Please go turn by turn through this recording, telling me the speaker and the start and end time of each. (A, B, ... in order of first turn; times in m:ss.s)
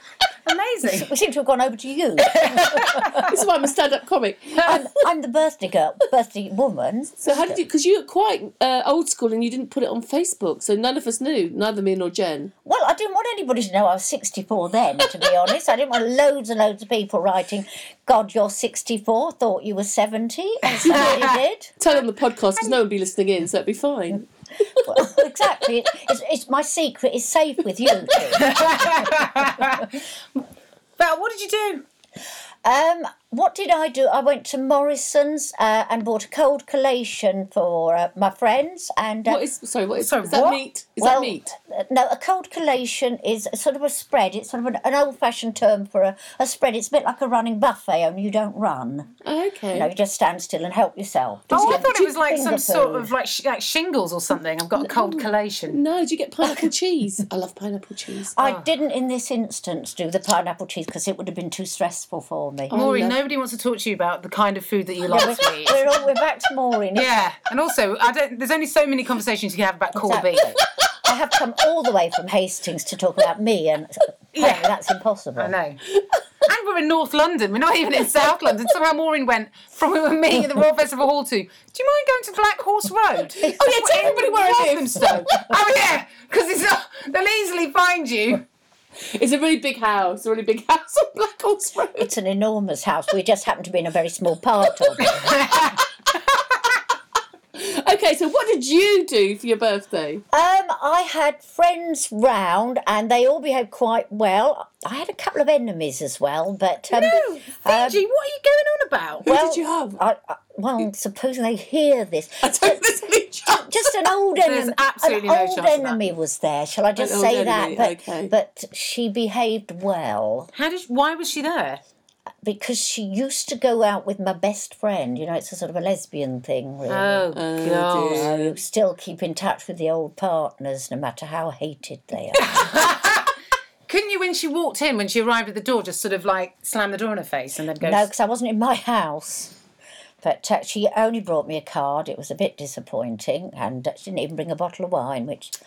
0:00.4-0:01.1 A
0:00.8-0:03.3 B
0:02.4-0:03.2 A
0:03.2-0:04.8 C
0:04.6-0:07.6 B
0:07.2-0:12.5 C
0:12.6-0:21.7 B
0:20.8-0:21.3 C
0:20.9-0:21.4 A
0:21.8-0:25.2 C
0:24.9-0:29.7 B
0:28.4-0:29.9 A
0:31.0-0:31.8 A
0:32.6-0:39.4 B
0:39.2-0:41.5 C
0:40.0-0:40.6 A
0:41.0-0:49.1 B
0:49.2-0:49.9 C
0:49.7-0:53.1 B
0:51.5-0:51.9 C
0:51.5-0:55.8 A
0:54.8-0:58.4 C
0:58.4-1:03.1 B
0:58.4-0:58.7 A
1:02.7-1:05.9 A
1:05.1-1:07.1 B
1:06.9-1:10.6 A
1:09.9-1:15.5 B
1:14.3-1:14.7 A
1:15.4-1:15.8 A
1:16.4-1:28.4 A
1:23.4-1:25.2 C
1:29.0-1:32.1 C
1:32.0-1:35.5 B
1:35.4-1:35.8 A
1:37.5-1:40.2 C
1:40.3-1:48.0 B
1:46.9-1:49.3 A
1:49.2-1:50.0 C
1:49.2-2:00.5 B
1:52.4-1:54.1 C
1:54.4-1:56.0 A
1:57.0-1:58.3 C
2:00.5-2:01.8 A
2:02.4-2:07.2 B
2:06.9-2:08.3 A
2:07.3-2:08.6 C
2:08.0-2:12.9 B
2:12.4-2:13.3 A
2:13.9-2:18.1 A
2:17.8-2:19.5 B
2:20.2-2:25.6 B